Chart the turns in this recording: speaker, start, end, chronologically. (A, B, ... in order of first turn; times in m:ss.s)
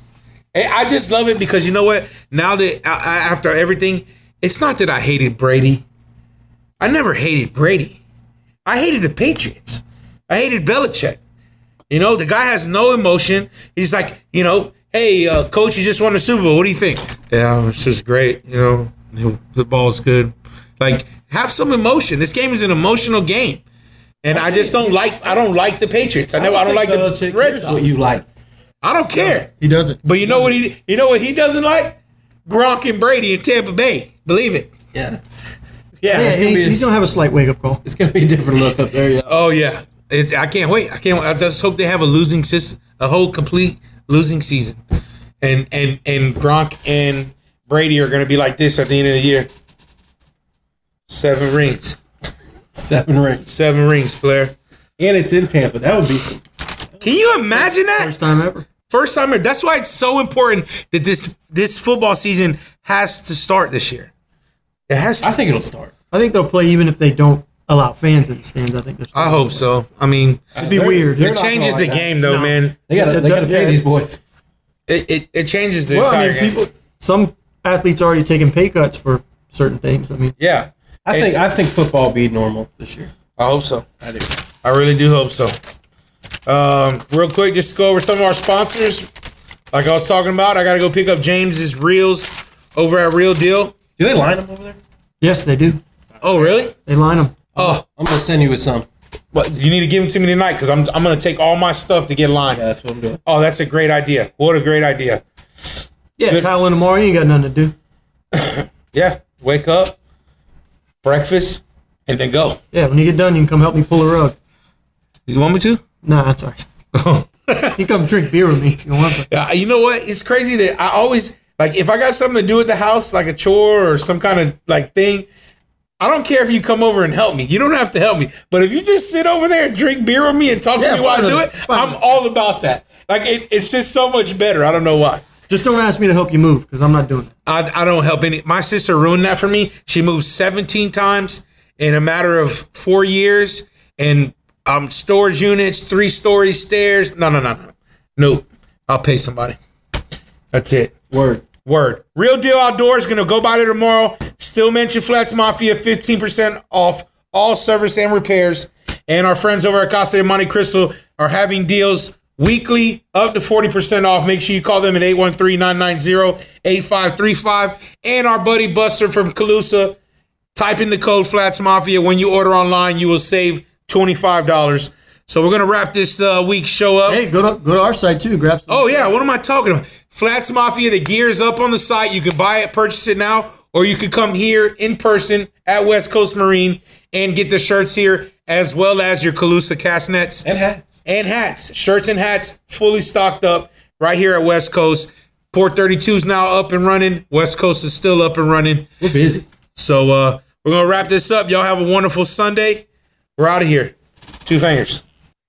0:00.5-0:05.8 A
0:06.8-0:08.0 A
0:08.6-0:11.2 A
0:11.9-0:23.6 A
0:24.2-0:28.0 A
0:24.3-0:25.4 B
0:26.3-0:28.2 B
0:28.8-0:29.5 A
0:29.5-0:30.0 C
0:30.0-0:34.7 A
0:30.2-0:30.5 B
0:34.9-0:35.2 B
0:36.0-0:36.5 A
0:36.1-0:37.8 C
0:36.1-0:36.8 B
0:37.8-0:39.4 B
0:39.3-0:44.8 A
0:45.4-0:49.5 A
0:51.1-0:52.0 A
0:52.7-0:53.4 B
0:53.5-0:54.5 A
0:55.0-0:57.4 B
0:57.0-0:58.1 A
0:57.5-0:58.6 C
0:58.9-1:04.1 A
1:04.9-1:05.3 A
1:05.2-1:05.9 B
1:06.1-1:09.7 C
1:09.1-1:10.6 A
1:10.5-1:12.2 B
1:10.6-1:11.6 C
1:11.1-1:12.8 A
1:12.2-1:13.8 C
1:12.9-1:14.2 B
1:14.9-1:16.5 A
1:15.9-1:20.3 C
1:20.4-1:21.3 A
1:21.0-1:23.1 B
1:23.4-1:23.9 A
1:24.0-1:24.4 B
1:24.6-1:25.6 A
1:26.4-1:29.1 A
1:29.7-1:33.8 A
1:34.0-1:34.8 B
1:35.2-1:35.8 C
1:36.1-1:36.7 B
1:36.2-1:36.7 A
1:36.8-1:37.5 C
1:37.5-1:38.8 B
1:37.6-1:37.8 A
1:39.3-1:42.6 A
1:42.5-1:43.2 B
1:43.2-1:45.2 A
1:46.2-1:47.7 C
1:48.3-1:50.0 A
1:51.0-1:52.6 A
1:52.7-1:54.4 C
1:55.3-1:55.8 A
1:56.0-1:56.6 C
1:56.9-1:57.8 A
1:57.8-1:59.3 C
1:59.2-2:05.3 A
2:06.0-2:15.2 A
2:10.8-2:12.1 C
2:15.5-2:17.3 C
2:17.4-2:29.6 A
2:30.5-2:31.0 A
2:31.1-2:31.4 B
2:31.6-2:50.0 A
2:50.5-2:57.2 A
2:57.1-2:59.1 C
2:58.7-3:10.5 A
3:10.4-3:11.0 B
3:11.0-3:18.9 A
3:19.0-3:19.5 B
3:19.8-3:22.8 A
3:23.4-3:25.0 A